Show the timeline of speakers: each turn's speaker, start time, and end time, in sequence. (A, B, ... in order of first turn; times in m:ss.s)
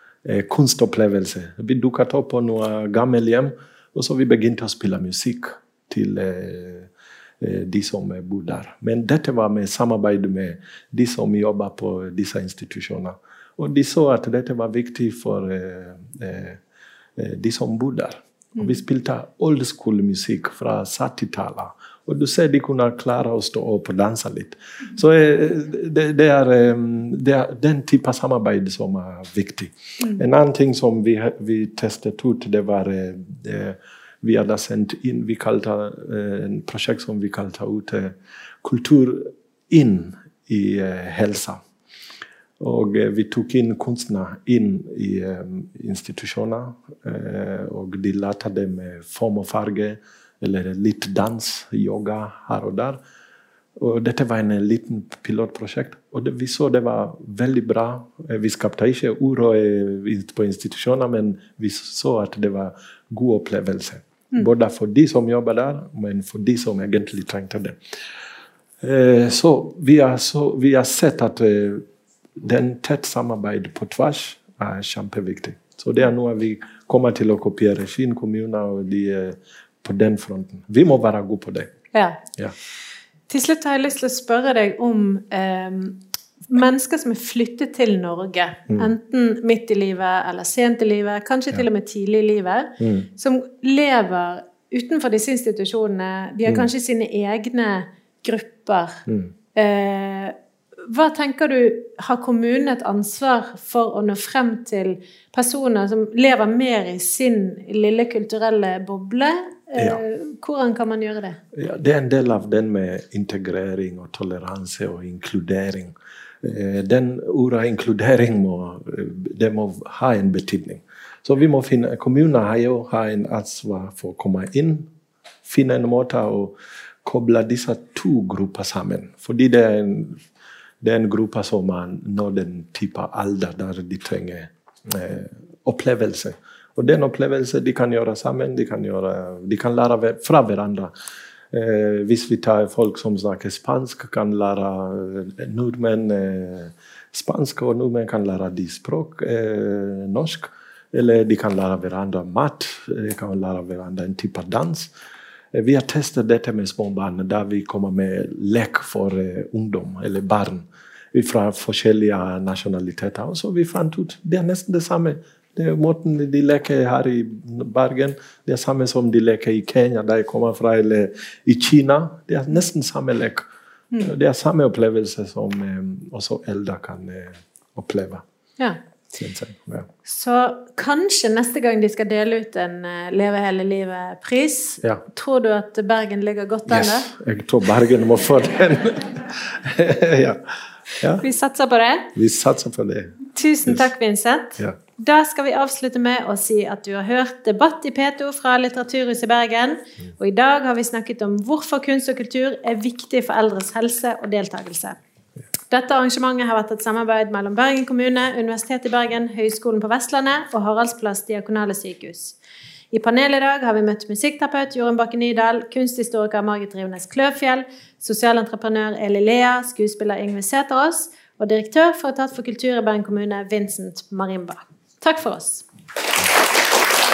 0:00.2-0:06.9 A
0:07.4-0:16.6 A
0:17.2-0:41.6 A
0:42.6-0:53.0 A
0:53.8-1:07.8 A
1:08.8-1:11.8 A
1:12.4-1:21.7 A
1:21.9-1:22.2 B
1:23.3-1:39.0 B
1:32.8-1:33.1 A
1:39.6-1:51.4 B
1:51.6-2:04.9 A
2:05.4-2:10.2 A
2:10.8-2:20.9 A
2:21.5-2:34.9 A
2:35.5-2:53.5 A
2:54.0-2:58.2 A
2:59.2-2:59.9 A
3:00.1-3:07.1 B
3:06.7-3:11.2 A
3:11.2-3:12.1 B
3:12.2-3:13.9 A
3:13.4-3:25.0 B
3:25.7-3:32.4 B
3:32.9-3:45.6 B